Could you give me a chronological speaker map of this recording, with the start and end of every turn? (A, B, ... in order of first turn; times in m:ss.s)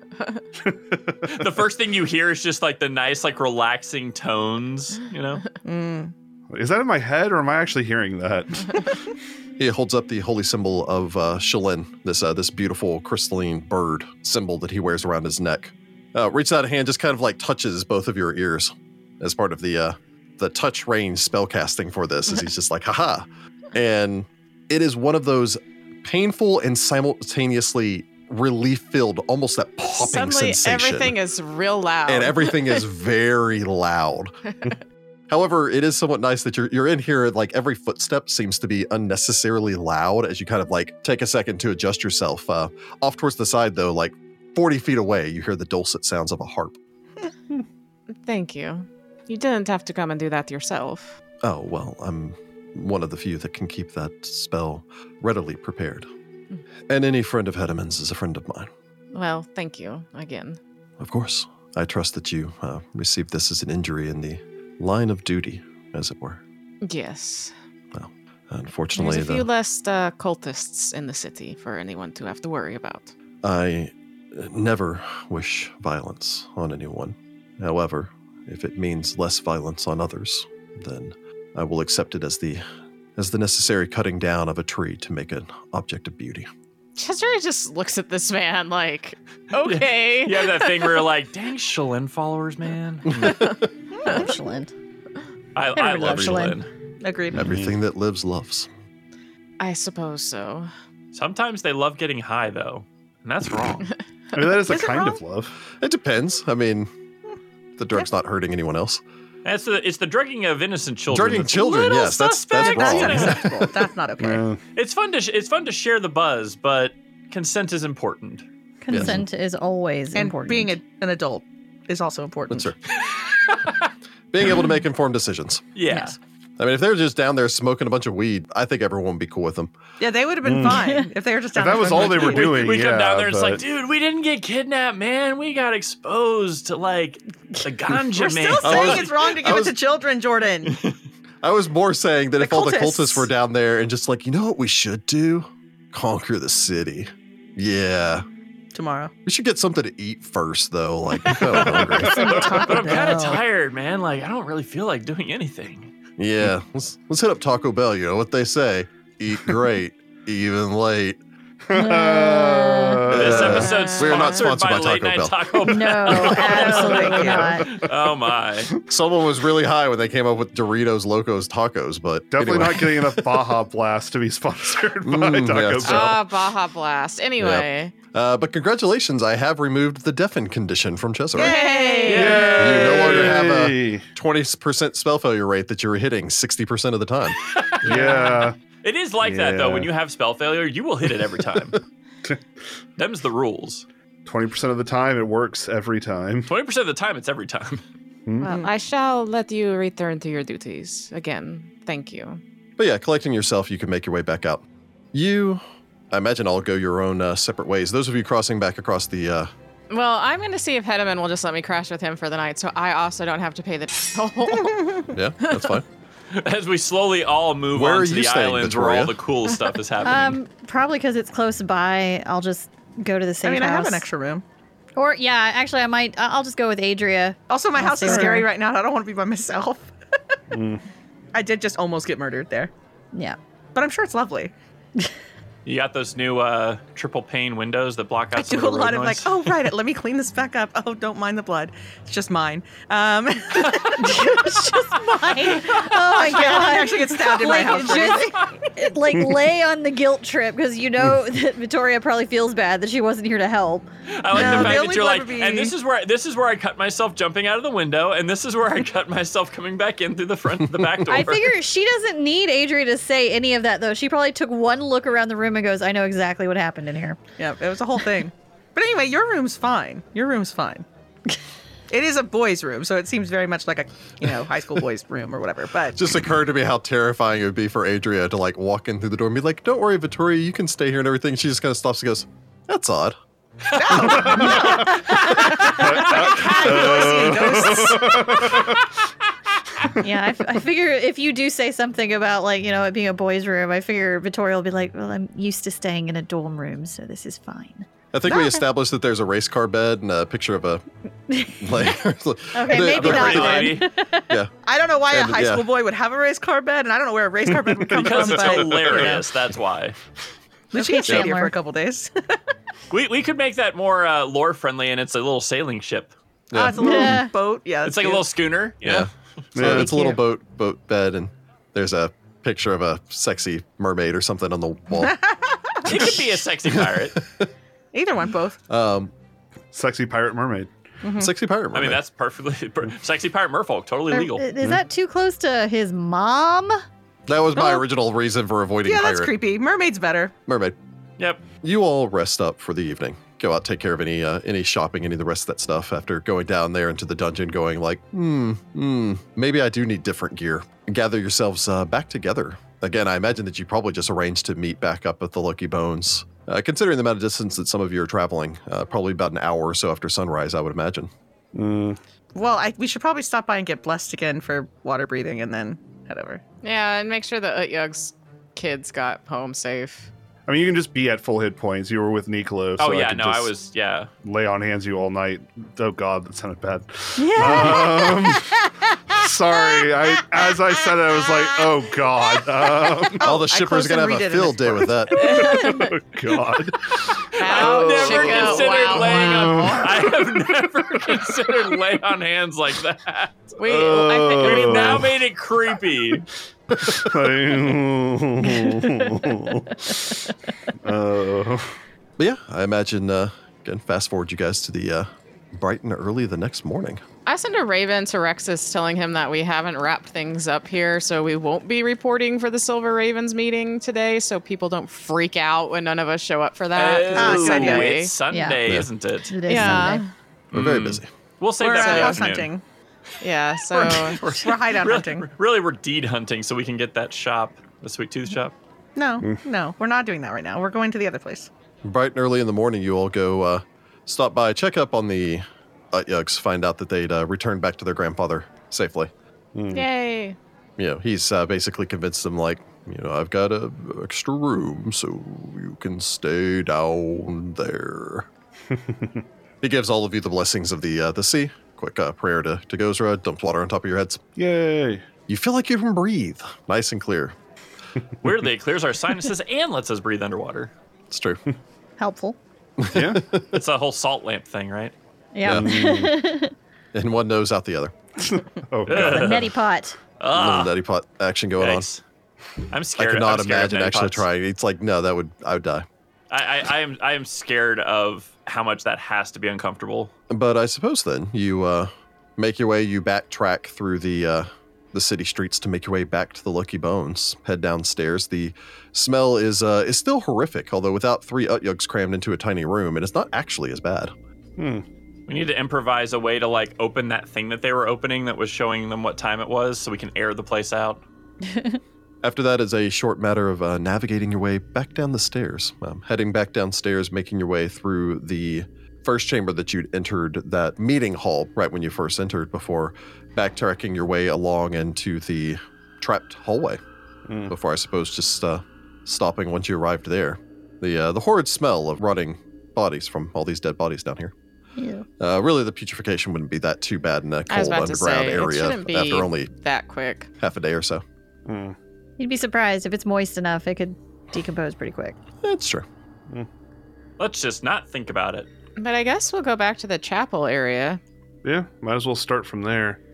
0:00.2-0:00.4 A
0:00.6-0:01.4 B
0:01.3-0:05.4 C
0:05.6-0:06.1 D
0:06.5-0:08.9 B
0:09.6-0:31.2 E
0:29.9-0:32.8 A
0:32.1-0:34.4 E
0:35.3-0:46.8 E
0:48.1-0:51.2 A
0:51.4-0:56.1 E
0:56.9-0:58.7 E
0:59.1-1:00.6 A
1:01.0-1:06.4 E
1:06.8-1:07.5 A
1:07.9-1:09.4 E
1:09.0-1:13.1 A
1:13.4-1:22.6 E
1:23.2-1:26.5 E
1:27.0-1:31.0 A
1:29.6-1:33.6 C
1:33.1-1:33.6 E
1:34.0-1:34.3 D
1:34.0-1:34.7 F
1:35.6-1:36.7 C
1:35.7-1:36.6 F
1:36.0-1:36.4 E
1:37.0-1:37.4 D
1:37.3-1:38.7 E
1:37.4-1:37.8 B
1:39.6-1:40.7 A
1:41.1-1:43.9 C
1:44.3-1:45.6 B
1:44.6-1:45.2 D
1:45.7-1:46.9 E
1:47.8-1:49.0 E
1:49.4-1:53.6 C
1:51.1-1:53.7 E
1:52.6-1:54.5 D
1:54.2-1:54.6 B
1:54.7-1:58.4 C
1:58.8-2:00.8 F
1:58.9-1:59.2 E
2:00.1-2:02.7 D
2:02.5-2:02.8 E
2:03.0-2:03.9 C
2:04.3-2:05.7 E
2:05.7-2:06.2 C
2:06.6-2:09.7 E
2:10.0-2:12.7 D
2:10.4-2:10.9 B
2:10.6-2:11.1 F
2:11.5-2:13.6 B
2:11.8-2:19.2 C
2:18.1-2:20.8 D
2:18.6-2:19.7 E
2:21.4-2:28.3 E
2:22.4-2:23.3 D
2:28.7-2:29.1 D
2:29.3-2:32.5 E
2:31.5-2:33.4 D
2:31.5-2:31.9 C
2:32.1-2:32.6 B
2:32.2-2:33.4 F
2:32.4-2:35.9 C
2:36.2-2:41.2 E
2:41.7-2:43.7 B
2:41.7-2:43.1 F
2:43.1-2:48.7 C
2:43.1-2:45.6 E
2:43.5-2:44.4 A
2:45.6-2:47.7 F
2:46.2-2:47.6 D
2:47.3-2:47.9 B
2:48.9-2:53.2 E
2:52.3-2:56.3 B
2:55.0-2:56.1 E
2:55.8-2:57.9 A
2:57.4-3:01.6 E
3:01.3-3:02.9 D
3:01.4-3:03.0 A
3:02.1-3:02.5 C
3:02.1-3:04.0 B
3:02.6-3:07.4 E
3:03.0-3:03.3 C
3:07.4-3:08.3 C
3:07.8-3:08.6 B
3:07.9-3:08.5 A
3:08.8-3:11.8 C
3:09.2-3:09.9 B
3:13.0-3:13.9 C
3:14.3-3:16.5 B
3:16.5-3:17.8 C
3:18.3-3:18.6 B
3:18.4-3:22.4 A
3:18.4-3:18.7 D
3:22.8-3:29.5 E
3:29.9-3:35.7 A
3:34.6-3:34.9 D
3:35.1-3:35.8 E
3:36.3-3:40.4 C
3:37.7-3:39.1 E
3:40.0-3:44.1 F
3:43.4-3:44.4 D
3:45.0-3:48.5 F
3:47.5-3:50.4 D
3:48.0-3:48.4 B
3:50.5-3:50.8 B
3:51.3-3:52.7 D
3:53.7-3:54.5 D
3:55.7-3:59.6 C
3:58.4-4:04.2 D
4:03.6-4:04.0 C
4:04.0-4:13.9 F
4:05.7-4:08.6 D
4:14.1-4:21.5 C
4:14.3-4:15.7 D
4:21.1-4:27.2 F
4:27.4-4:30.9 D
4:31.9-4:36.0 D
4:35.9-4:43.2 E
4:43.7-4:48.4 D
4:43.9-4:44.4 E
4:44.1-4:46.6 C
4:44.2-4:45.0 B
4:45.6-4:48.9 B
4:49.8-4:50.1 B
4:50.0-4:58.6 F
4:58.1-5:00.8 E
5:01.3-5:01.7 F
5:01.6-5:04.5 E
5:02.5-5:04.3 F
5:02.7-5:03.9 C
5:04.6-5:09.3 D
5:05.1-5:05.7 E
5:07.5-5:08.6 B
5:07.9-5:10.0 C
5:10.7-5:12.4 D
5:10.7-5:11.6 F
5:11.1-5:11.3 E
5:12.9-5:16.1 C
5:16.5-5:17.2 E
5:16.5-5:18.3 D
5:16.8-5:17.3 F
5:17.8-5:19.1 C
5:18.8-5:25.2 E
5:19.6-5:20.0 B
5:19.7-5:20.2 F
5:25.0-5:26.2 D
5:25.8-5:27.2 C
5:26.7-5:27.5 E
5:27.9-5:28.6 D
5:28.7-5:29.1 E
5:29.7-5:30.7 B
5:31.0-5:31.3 D
5:31.2-5:32.0 E
5:31.7-5:34.4 C
5:34.1-5:36.8 F
5:37.3-5:39.3 E
5:37.6-5:37.8 D
5:38.8-5:40.4 D
5:40.5-5:40.8 E
5:41.6-6:01.1 E
6:01.5-6:02.0 B
6:02.4-6:06.4 D
6:06.6-6:10.1 A
6:10.5-6:13.5 B
6:12.8-6:14.1 C
6:14.2-6:18.6 B
6:17.2-6:18.5 F
6:19.1-6:23.3 B
6:23.2-6:25.5 E
6:23.2-6:24.9 D
6:25.2-6:30.4 B
6:25.3-6:26.0 A
6:27.3-6:33.5 C
6:27.4-6:30.1 A
6:33.6-6:35.1 A
6:33.6-6:35.2 B
6:34.4-6:36.3 C
6:36.7-6:40.3 B
6:40.8-6:41.8 B
6:42.2-6:47.0 E
6:47.3-6:58.1 A
6:56.7-6:59.6 C
6:57.1-6:58.0 D
6:58.3-6:58.6 F
6:59.3-7:00.0 F
6:59.4-7:00.1 A
7:00.5-7:02.5 C
7:00.5-7:01.1 E
7:01.6-7:02.6 D
7:01.8-7:02.2 A
7:03.2-7:04.3 A
7:03.7-7:05.3 D
7:03.8-7:08.6 C
7:09.0-7:11.5 D
7:11.8-7:19.1 E
7:19.6-7:19.9 B
7:19.7-7:20.4 A
7:20.8-7:28.3 E
7:28.7-7:29.2 B
7:29.6-7:34.2 E
7:34.4-7:35.0 B
7:35.3-7:37.4 E
7:38.2-7:40.7 C
7:41.1-7:41.4 E
7:42.0-7:42.4 F
7:42.8-7:43.6 E
7:42.9-7:43.2 B
7:43.5-7:44.9 C
7:45.4-7:46.5 F
7:45.4-7:45.7 E
7:45.4-7:46.2 B
7:46.9-7:48.0 E
7:48.2-7:49.4 B
7:48.9-7:49.5 C
7:48.9-7:50.0 F
7:50.2-7:50.8 C
7:50.3-7:51.9 E
7:51.6-7:52.0 C
7:52.7-7:54.2 C
7:53.0-7:55.8 E
7:56.3-8:00.1 C
8:00.3-8:14.1 E
8:14.6-8:14.8 B
8:15.3-8:21.0 C
8:21.4-8:21.8 F
8:22.2-8:36.8 E
8:37.3-8:37.5 B
8:37.5-8:44.3 E
8:44.8-8:45.1 F
8:45.2-8:49.5 E
8:47.5-8:50.3 A
8:50.4-8:51.0 E
8:51.4-8:51.7 B
8:52.2-8:55.2 F
8:55.4-8:55.9 E
8:57.2-8:58.5 C
8:58.8-9:01.0 A
9:01.4-9:03.0 B